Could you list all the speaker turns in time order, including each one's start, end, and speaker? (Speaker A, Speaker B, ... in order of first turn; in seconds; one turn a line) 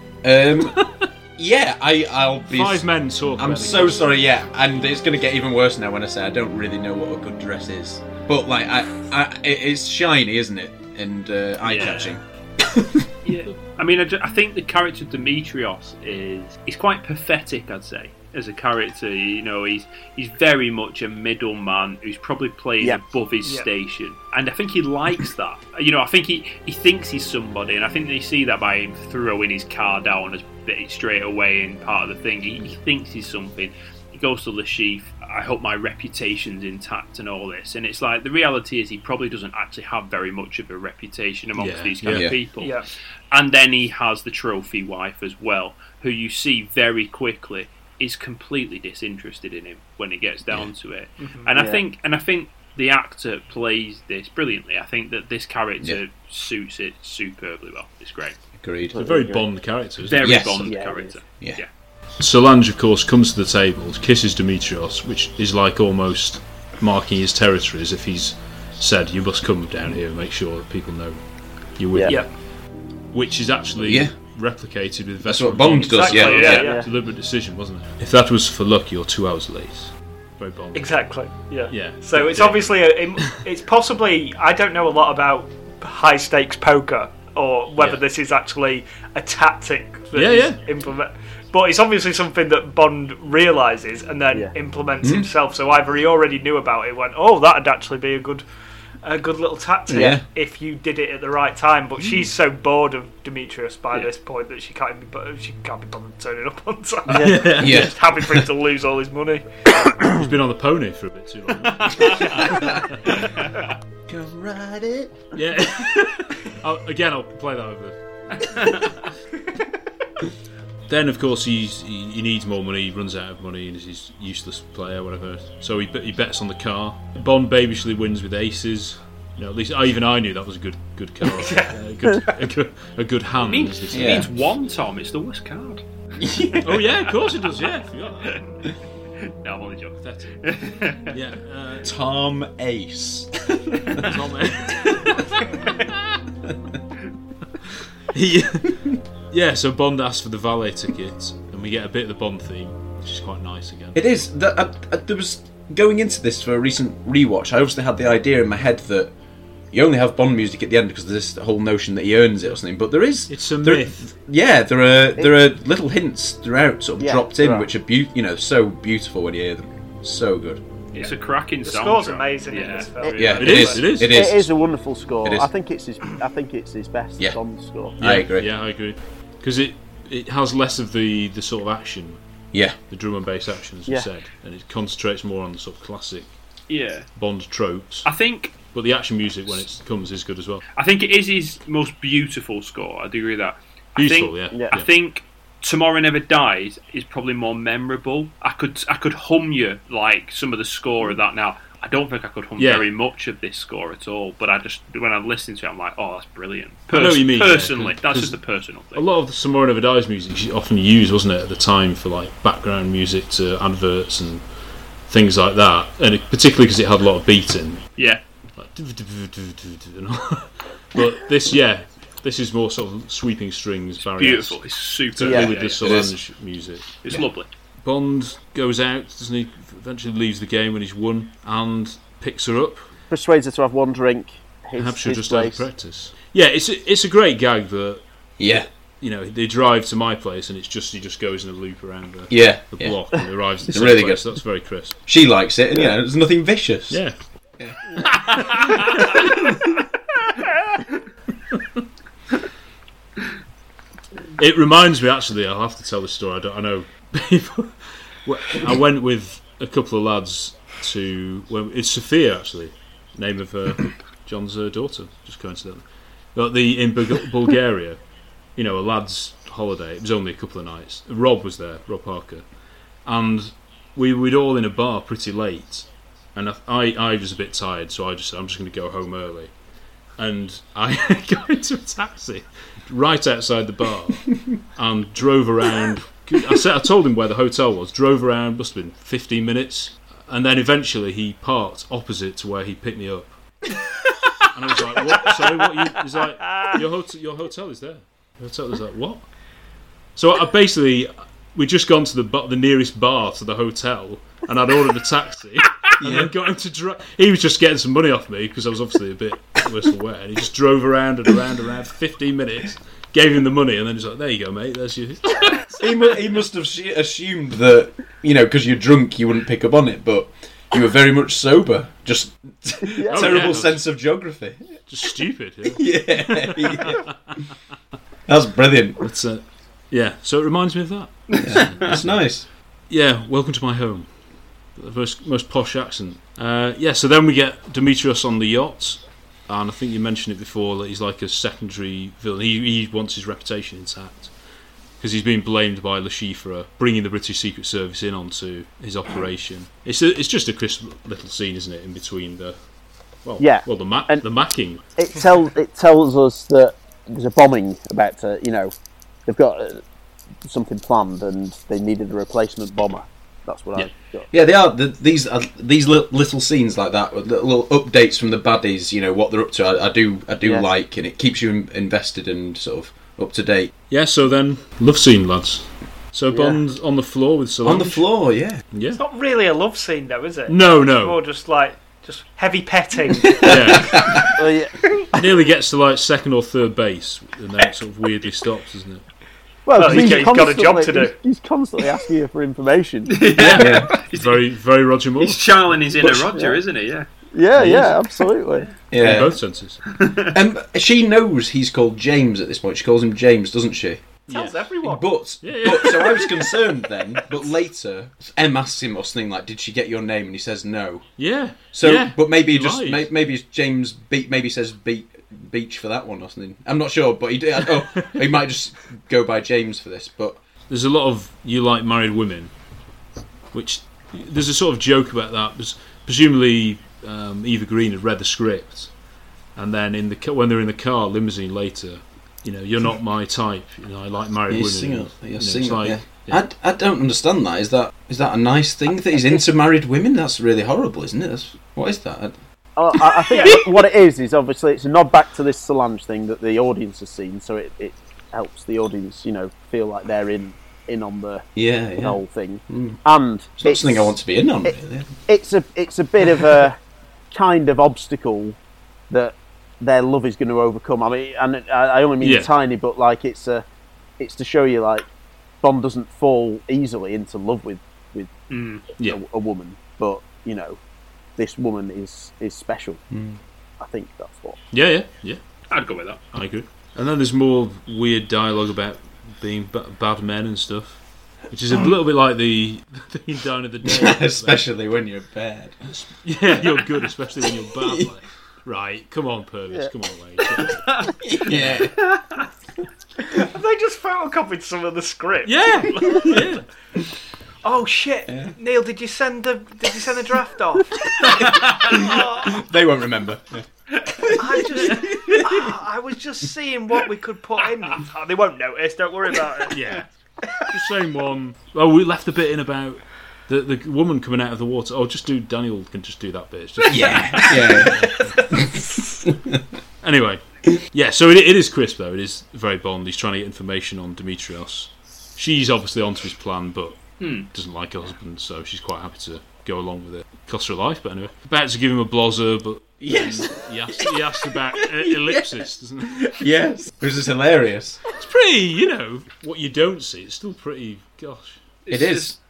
Speaker A: 0.2-0.8
Speaker B: 0.8-1.1
Speaker A: 1.4-13.0
Speaker B: 2.5-4.2
Speaker C: 11.6-12.2
Speaker C: 13.2-42.8
Speaker B: 41.5-42.3
Speaker A: 42.1-42.4
Speaker D: 42.6-42.9
Speaker C: 43.3-58.4
Speaker D: 51.2-51.5
Speaker E: 51.5-51.8
Speaker A: 58.6-59.0
Speaker E: 58.9-59.4
Speaker B: 59.0-60.3
Speaker C: 60.0-61.7
Speaker A: 60.2-60.7
Speaker E: 60.6-61.2
Speaker B: 62.2-71.2
Speaker B: 71.8-72.2
Speaker E: 71.9-72.2
Speaker B: 73.1-80.9
Speaker A: 73.8-74.1
Speaker A: 75.2-76.7
Speaker D: 75.8-76.8
Speaker E: 76.6-76.9
Speaker D: 80.7-98.5
Speaker B: 81.7-82.7
Speaker B: 90.1-90.6
Speaker A: 95.0-95.3
Speaker D: 99.0-109.5
Speaker A: 99.9-100.2
Speaker E: 99.9-100.2
Speaker B: 107.1-107.8
Speaker A: 107.5-108.4
Speaker B: 110.1-113.2
Speaker C: 111.8-112.1
Speaker A: 114.1-115.3
Speaker B: 115.3-118.0
Speaker C: 118.4-119.0
Speaker B: 120.9-134.3
Speaker D: 131.2-131.8
Speaker C: 133.4-135.8
Speaker A: 133.9-134.3
Speaker A: 136.2-136.7
Speaker B: 136.6-138.4
Speaker C: 139.4-141.1
Speaker B: 140.0-140.4
Speaker B: 141.1-141.9
Speaker A: 141.8-144.1
Speaker B: 144.0-146.1
Speaker B: 148.1-154.0
Speaker A: 153.9-159.1
Speaker A: 159.7-170.6
Speaker B: 163.3-164.1
Speaker E: 167.0-167.7
Speaker C: 170.9-173.7
Speaker D: 170.9-174.0
Speaker A: 173.1-174.5
Speaker B: 173.4-174.3
Speaker E: 174.1-178.0
Speaker A: 175.2-175.5
Speaker A: 178.0-178.5
Speaker B: 178.0-182.2
Speaker B: 182.9-186.3
Speaker C: 186.7-187.1
Speaker B: 187.1-190.6
Speaker C: 188.0-188.7
Speaker C: 190.8-209.1
Speaker B: 193.9-194.9
Speaker B: 202.6-202.9
Speaker B: 206.9-208.4
Speaker B: 208.9-214.4
Speaker B: 215.1-217.9
Speaker C: 218.0-218.2
Speaker B: 218.6-224.6
Speaker C: 224.1-225.9
Speaker B: 225.1-226.9
Speaker E: 225.2-225.6
Speaker A: 225.8-226.2
Speaker C: 227.0-227.5
Speaker B: 227.8-232.9
Speaker E: 233.1-235.7
Speaker B: 234.8-245.0
Speaker A: 238.4-238.7
Speaker A: 242.3-243.1
Speaker A: 243.7-244.4
Speaker A: 245.0-247.0
Speaker B: 246.9-247.2
Speaker B: 248.2-249.4
Speaker B: 251.5-251.8
Speaker B: 254.4-268.0
Speaker B: 268.6-272.4
Speaker B: 273.0-279.5
Speaker B: 280.2-293.4
Speaker B: 294.5-299.3
Speaker D: 295.1-295.5
Speaker D: 296.4-296.8
Speaker B: 300.1-315.9
Speaker A: 306.0-306.3
Speaker A: 315.8-324.8
Speaker E: 322.9-323.5
Speaker B: 323.1-323.8
Speaker B: 324.9-327.1
Speaker A: 325.6-327.1
Speaker A: 328.3-329.0
Speaker B: 329.0-332.2
Speaker A: 331.4-332.4
Speaker B: 332.9-334.1
Speaker B: 334.7-344.3
Speaker B: 345.0-352.6
Speaker B: 353.2-354.8
Speaker E: 353.4-354.3
Speaker E: 355.0-358.7
Speaker E: 359.3-359.8
Speaker E: 360.5-364.2
Speaker A: 364.3-373.7
Speaker E: 370.4-370.7
Speaker B: 373.9-378.1
Speaker E: 376.3-376.6
Speaker A: 377.6-378.6
Speaker B: 378.7-379.0
Speaker D: 378.9-384.0
Speaker B: 380.5-381.2
Speaker A: 383.3-384.3
Speaker B: 383.4-384.2
Speaker E: 384.4-384.7
Speaker B: 385.1-389.1
Speaker E: 389.6-393.2
Speaker D: 389.7-391.2
Speaker B: 389.9-390.1
Speaker C: 393.1-394.4
Speaker B: 393.4-395.4
Speaker A: 393.5-393.9
Speaker C: 395.2-397.1
Speaker E: 396.0-396.6
Speaker E: 397.3-398.7
Speaker B: 397.6-398.0
Speaker A: 398.9-399.3
Speaker B: 399.0-399.8
Speaker C: 399.9-400.3
Speaker A: 400.3-404.0
Speaker D: 404.2-405.2
Speaker B: 404.3-404.6
Speaker A: 404.8-411.1
Speaker B: 405.4-406.4
Speaker B: 411.2-413.1
Speaker A: 411.7-420.4
Speaker B: 417.6-418.2
Speaker B: 420.7-422.5
Speaker B: 423.5-428.9
Speaker B: 429.5-436.4
Speaker A: 434.5-442.4
Speaker E: 442.8-451.4
Speaker D: 443.3-443.7
Speaker A: 451.6-453.0
Speaker E: 451.9-456.8
Speaker A: 453.6-455.2
Speaker E: 457.3-458.6
Speaker E: 459.1-463.6
Speaker B: 462.2-462.5
Speaker E: 464.2-465.1
Speaker E: 465.6-468.3
Speaker C: 468.5-468.9
Speaker E: 469.0-470.8
Speaker E: 471.4-473.0
Speaker A: 473.1-473.4
Speaker E: 473.8-474.6
Speaker B: 474.7-475.4
Speaker C: 475.7-476.2
Speaker B: 476.3-484.6
Speaker A: 483.8-485.9
Speaker B: 485.9-490.8
Speaker A: 491.2-491.9
Speaker B: 491.4-491.9
Speaker D: 493.4-496.3
Speaker B: 495.4-496.6
Speaker D: 497.6-501.0
Speaker A: 501.3-503.6
Speaker D: 501.9-502.6
Speaker A: 504.2-505.6
Speaker D: 504.3-509.8
Speaker B: 509.7-510.1
Speaker B: 510.7-518.3
Speaker D: 516.9-519.2
Speaker A: 516.9-518.1
Speaker B: 520.0-536.3
Speaker C: 527.2-527.5
Speaker A: 533.0-534.1
Speaker A: 534.8-535.5
Speaker A: 536.1-538.0
Speaker B: 538.1-541.6
Speaker C: 541.8-542.4
Speaker A: 541.9-542.4